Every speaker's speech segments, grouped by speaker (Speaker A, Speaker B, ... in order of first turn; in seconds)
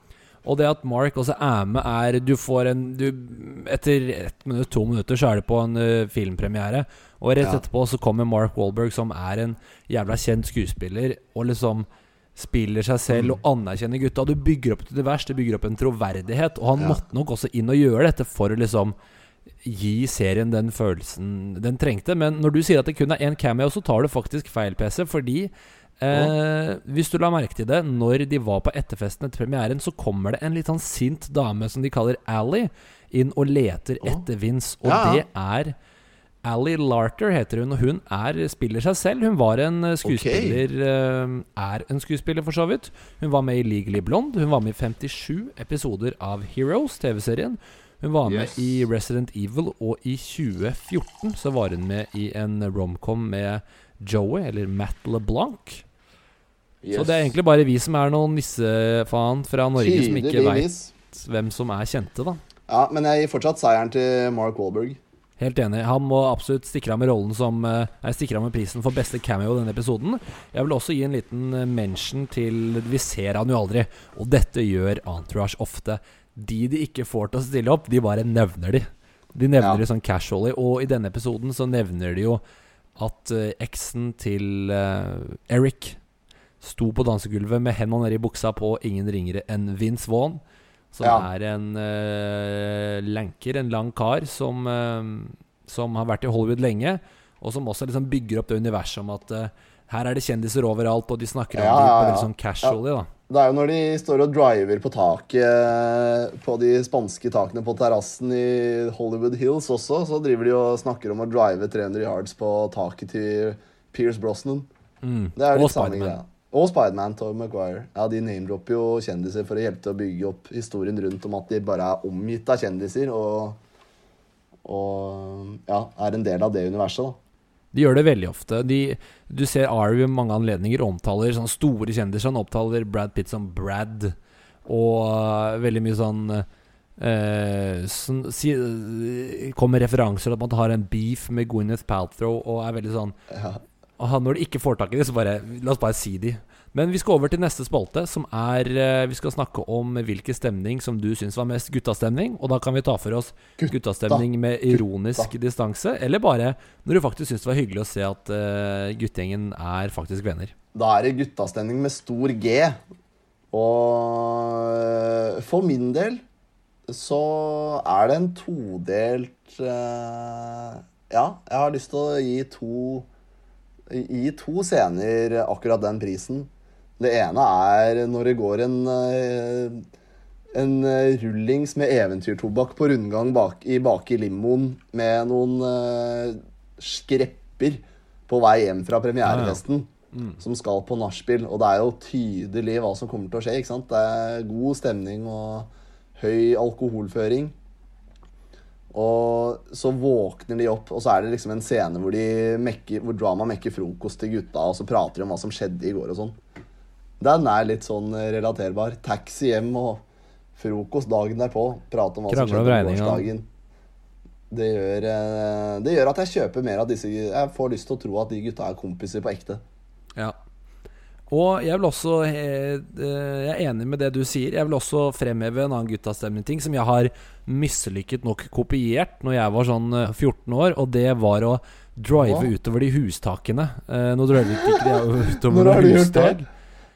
Speaker A: 0.5-18.9, 19.6-35.8, 36.4-55.8, 56.9-62.4, 65.4-82.4, 83.0-86.0, 86.6-90.4, 90.9-103.1, 115.0-116.2, 127.7-134.2, 134.7-136.5, 137.0-143.2, 144.0-160.5, 189.2-189.6, 190.1-190.4, 212.3-213.3, 221.3-236.4
Speaker B: 13.1-13.4, 16.8-17.0, 34.8-35.2, 40.0-40.6, 48.3-48.8, 56.8-57.3, 59.8-60.9, 62.7-65.0, 101.5-102.8, 103.3-114.7, 115.4-123.6, 124.7-127.2, 143.3-143.6, 153.6-155.3, 160.7-162.8, 163.5-166.2, 166.9-173.1, 173.9-179.8, 180.5-197.6, 198.9-206.4, 207.2-210.0, 210.6-213.5, 214.5-219.6, 232.2-232.5, 234.4-236.4